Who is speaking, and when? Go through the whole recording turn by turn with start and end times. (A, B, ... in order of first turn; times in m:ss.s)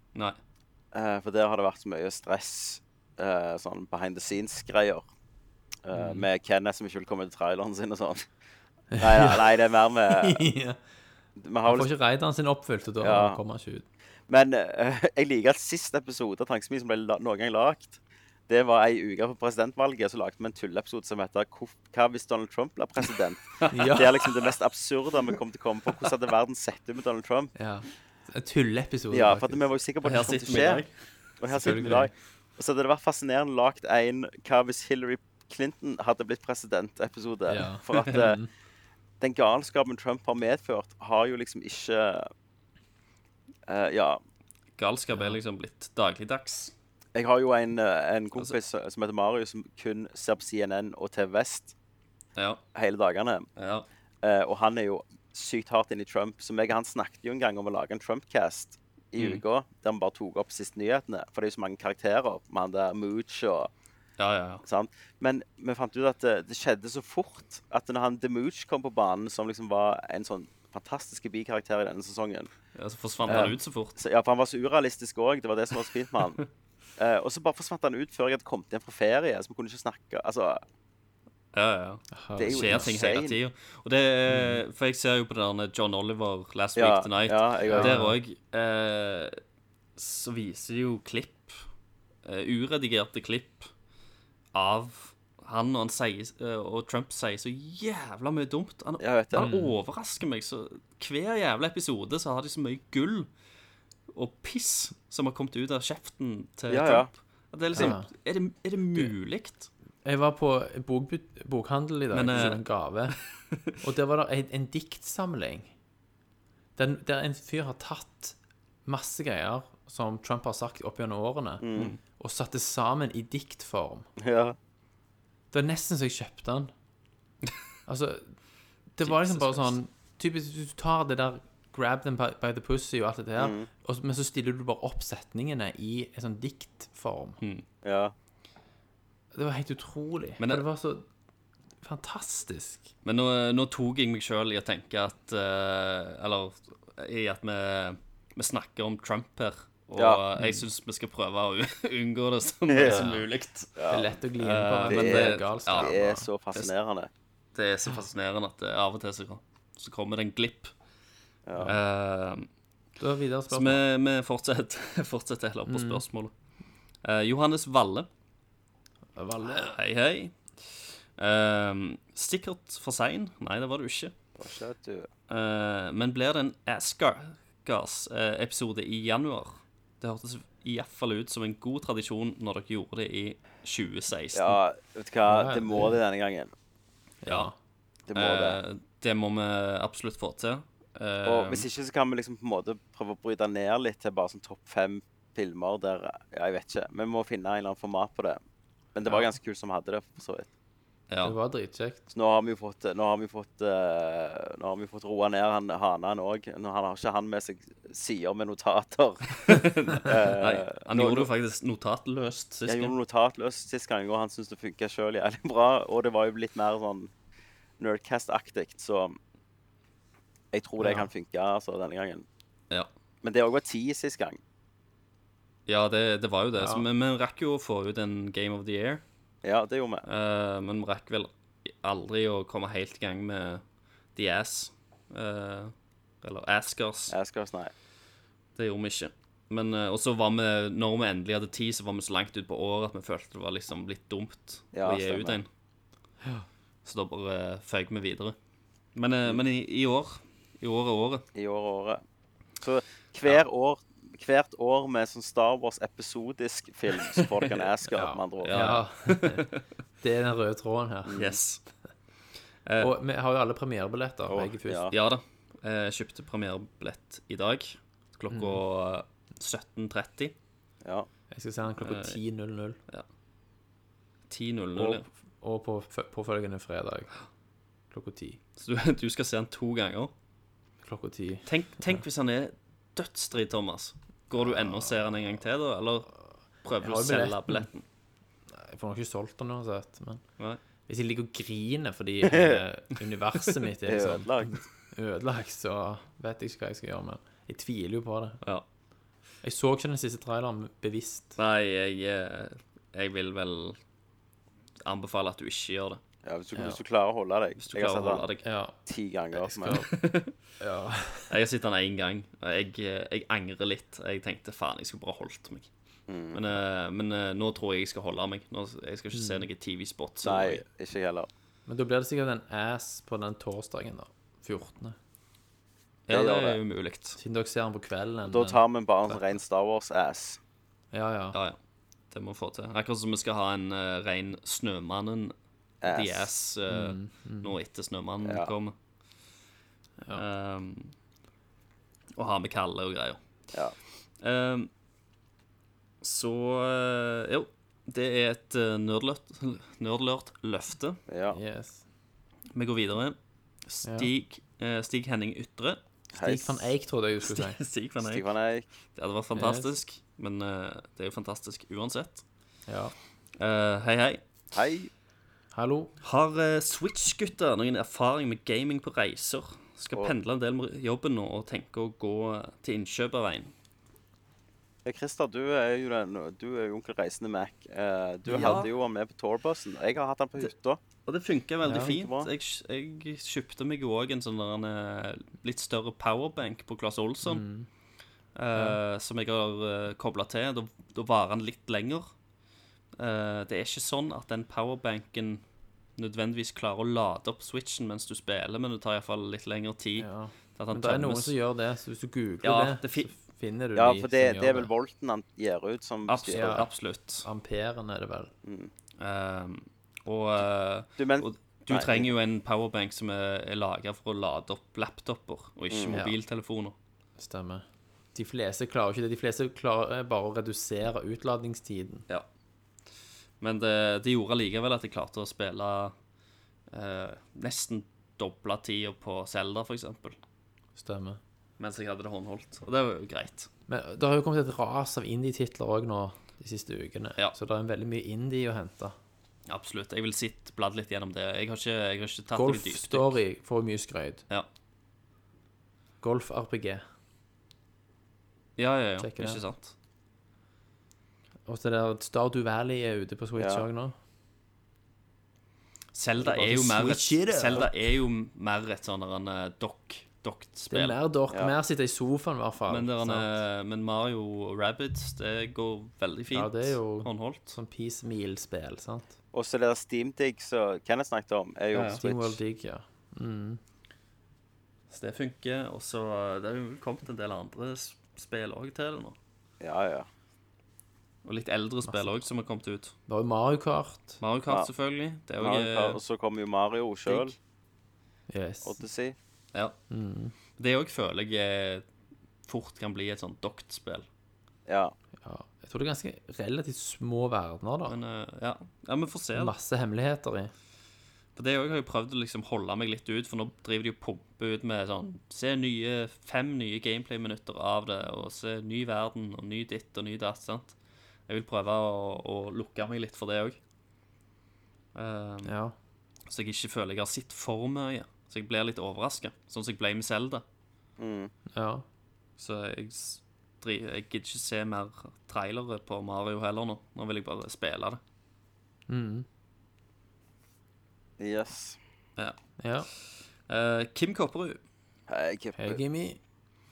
0:00.9-0:05.0 A
0:05.8-0:08.2 A
0:06.0-0:06.2 B
0:09.0-0:09.6 B
0:09.0-0:10.4 A
0:10.1-0:10.8 B
0:11.4-0:11.9 A
0:11.6-0:13.8 B
0:13.0-0:13.4 A
0:14.3-0:27.5 A
0:23.7-0:24.2 B
0:27.6-0:29.6 B
0:29.1-0:30.8 A
0:30.0-0:30.9 C
0:31.4-0:38.4 A
0:31.5-0:32.1 B
0:37.5-0:38.5 B
0:39.2-0:42.3 A
0:43.7-0:44.2 A
0:44.8-0:46.7 C
0:47.2-0:51.7 A
0:52.4-0:52.6 C
0:52.8-0:53.5 A
0:53.6-0:53.9 C
0:54.2-1:03.7 A
0:59.2-0:59.4 C
1:04.2-1:04.6 C
1:04.6-1:12.5 A
1:12.8-1:14.0 C
1:13.3-1:16.4 A
1:17.0-1:20.6 A
1:21.5-1:29.4 C
1:22.1-1:22.9 B
1:22.4-1:23.4 A
1:24.3-1:24.6 B
1:26.8-1:28.0 A
1:27.6-1:28.2 B
1:30.0-1:31.6 C
1:32.2-1:33.7 C
1:34.5-1:43.3 C
1:39.0-1:39.5 A
1:39.4-1:39.8 B
1:44.1-1:49.7 C
1:46.7-1:47.1 A
1:47.8-1:48.1 B
1:50.0-1:53.2 B
1:52.1-1:52.6 C
1:53.8-1:55.7 B
1:56.8-2:04.1 B
2:01.6-2:01.9 A
2:04.2-2:04.6 A
2:05.5-2:06.7 B
2:07.9-2:08.3 B
2:09.0-2:17.4 B
2:09.0-2:09.8 C
2:13.4-2:13.7 A
2:17.4-2:17.6 C
2:17.8-2:18.1 A
2:19.3-2:21.1 B
2:20.4-2:20.6 C
2:21.8-2:22.9 B
2:23.0-2:33.8 C
2:30.0-2:30.2 A
2:30.4-2:30.6 B
2:32.7-2:33.2 A
2:33.8-2:34.2 A
2:33.9-2:36.3 B
2:34.4-2:36.0 C
2:34.9-2:37.1 A
2:37.6-2:40.7 C
2:41.4-2:41.7 A
2:41.6-2:42.5 C
2:43.0-2:43.8 B
2:43.5-2:46.3 C
2:45.7-2:46.0 B
2:47.0-2:48.1 C
2:49.2-2:49.8 B
2:49.4-2:54.2 C
2:54.4-2:55.1 A
2:55.3-3:04.6 C
3:04.3-3:06.5 A
3:05.3-3:06.0 B
3:07.2-3:07.6 B
3:07.3-3:07.5 C
3:08.1-3:08.6 A
3:08.2-3:11.7 C
3:11.2-3:18.4 A
3:19.0-3:20.5 A
3:21.1-3:21.4 C
3:21.2-3:22.0 B
3:22.1-3:31.3 A
3:29.4-3:33.0 C
3:32.7-3:37.1 A
3:37.8-3:39.2 A
3:40.5-3:42.3 A
3:40.8-3:41.1 B
3:43.2-3:44.4 A
3:45.7-3:49.0 C
3:46.6-3:46.8 B
3:49.4-3:50.1 A
3:50.1-3:53.6 C
3:54.2-3:57.2 C
3:57.1-3:57.7 A
3:58.6-4:05.5 C
4:04.7-4:05.4 A
4:06.8-4:08.4 C
4:09.0-4:11.2 C
4:11.4-4:12.0 A
4:12.6-4:18.8 A
4:17.2-4:17.7 C
4:17.9-4:19.4 B
4:18.4-4:19.6 C
4:20.0-4:21.2 B
4:21.1-4:21.4 A
4:21.2-4:21.6 C
4:22.6-4:22.9 C
4:22.8-4:24.9 B
4:24.3-4:24.9 A
4:24.9-4:30.4 C
4:28.3-4:28.6 B
4:31.3-4:32.8 B
4:31.8-4:32.2 C
4:34.3-4:35.1 C
4:34.8-4:37.1 B
4:37.9-4:38.4 B
4:38.6-4:40.1 C
4:40.8-4:42.0 B
4:41.4-4:47.8 C
4:44.4-4:45.0 B
4:46.8-4:47.7 B
4:48.5-4:50.2 B
4:50.9-4:58.4 B
4:52.2-4:52.6 A
4:53.8-4:54.7 A
4:59.4-5:01.4 B
5:01.4-5:03.8 C
5:04.8-5:06.0 C
5:06.2-5:08.3 A
5:06.6-5:06.8 B
5:07.6-5:08.4 C
5:08.4-5:08.8 B
5:08.9-5:09.8 A
5:09.4-5:09.9 B
5:09.6-5:10.4 C
5:10.6-5:11.3 B
5:11.3-5:15.7 C
5:16.1-5:16.4 A
5:16.3-5:20.6 C
5:19.1-5:19.5 B
5:20.2-5:21.3 A
5:21.7-5:25.0 B
5:26.1-5:27.2 C
5:26.1-5:26.6 A
5:27.2-5:29.2 B
5:28.2-5:30.4 A
5:30.9-5:31.4 B
5:31.3-5:31.6 C
5:32.1-5:35.4 C
5:35.8-5:36.3 A
5:35.9-5:38.8 C
5:36.7-5:37.6 B
5:38.2-5:38.5 A
5:40.1-5:40.9 C
5:42.2-5:43.2 C
5:44.2-5:44.7 C
5:46.0-5:51.0 C
5:51.1-5:51.4 A
5:51.3-5:51.8 B
5:52.5-5:55.8 C
5:53.8-5:54.1 B
5:56.1-5:57.6 B
5:56.1-5:56.7 A
5:57.2-5:58.3 C
5:58.0-5:58.6 A
5:59.0-6:02.2 C
5:59.3-5:59.8 B
6:02.7-6:02.9 B
6:03.4-6:04.2 C
6:04.5-6:04.9 A
6:05.5-6:05.9 B
6:06.0-6:13.5 C
6:14.8-6:20.8 A
6:18.3-6:18.7 C
6:18.3-6:18.6 B
6:21.0-6:27.4 C
6:21.6-6:21.9 B
6:21.7-6:22.3 A
6:27.2-6:27.7 B
6:28.4-6:32.1 C
6:33.0-6:35.4 C
6:36.0-6:41.3 C
6:40.0-6:44.7 B
6:42.4-6:43.1 C
6:43.8-6:46.7 A
6:46.1-6:47.3 C
6:46.3-6:46.7 B
6:47.2-6:48.3 B
6:48.4-6:48.7 A
6:49.0-6:56.8 C
6:51.0-6:52.1 A
6:55.7-6:56.0 A
6:57.2-7:02.0 B
7:03.4-7:05.9 C
7:06.7-7:10.2 C
7:10.8-7:11.2 B
7:11.6-7:13.5 C
7:13.7-7:19.0 B
7:19.5-7:23.2 C
7:22.3-7:24.2 B
7:26.0-7:26.8 B
7:28.6-7:29.7 C
7:29.0-7:29.4 B
7:31.5-7:34.0 B
7:33.4-7:33.6 A
7:35.9-7:41.0 C
7:36.2-7:37.9 B
7:40.7-7:43.3 B
7:42.7-7:47.6 C
7:46.3-7:49.1 B
7:49.3-7:52.4 A
7:51.7-7:52.0 C
7:52.0-7:53.6 B
7:54.9-7:59.2 C
7:59.6-8:00.1 A
8:01.2-8:02.9 C
8:01.8-8:02.2 B
8:03.1-8:04.2 B
8:04.2-8:06.0 C
8:05.4-8:07.4 A
8:07.1-8:07.3 C
8:08.3-8:08.8 B
8:08.6-8:09.2 A
8:09.9-8:10.4 B
8:10.5-8:11.8 C
8:12.5-8:14.1 C
8:14.7-8:14.9 A
8:15.2-8:18.0 B
8:17.9-8:19.5 C
8:19.4-8:20.5 B
8:21.4-8:30.8 C
8:31.3-8:33.6 C
8:35.0-8:35.5 C
8:35.4-8:35.8 B
8:36.3-8:40.4 C
8:41.0-8:41.3 A
8:41.5-8:41.8 B
8:42.4-8:48.0 C
8:48.9-8:49.3 B
8:51.2-8:51.8 A
8:52.6-8:52.9 B
8:53.5-8:54.6 C
8:55.1-8:55.8 A
8:55.6-8:56.2 B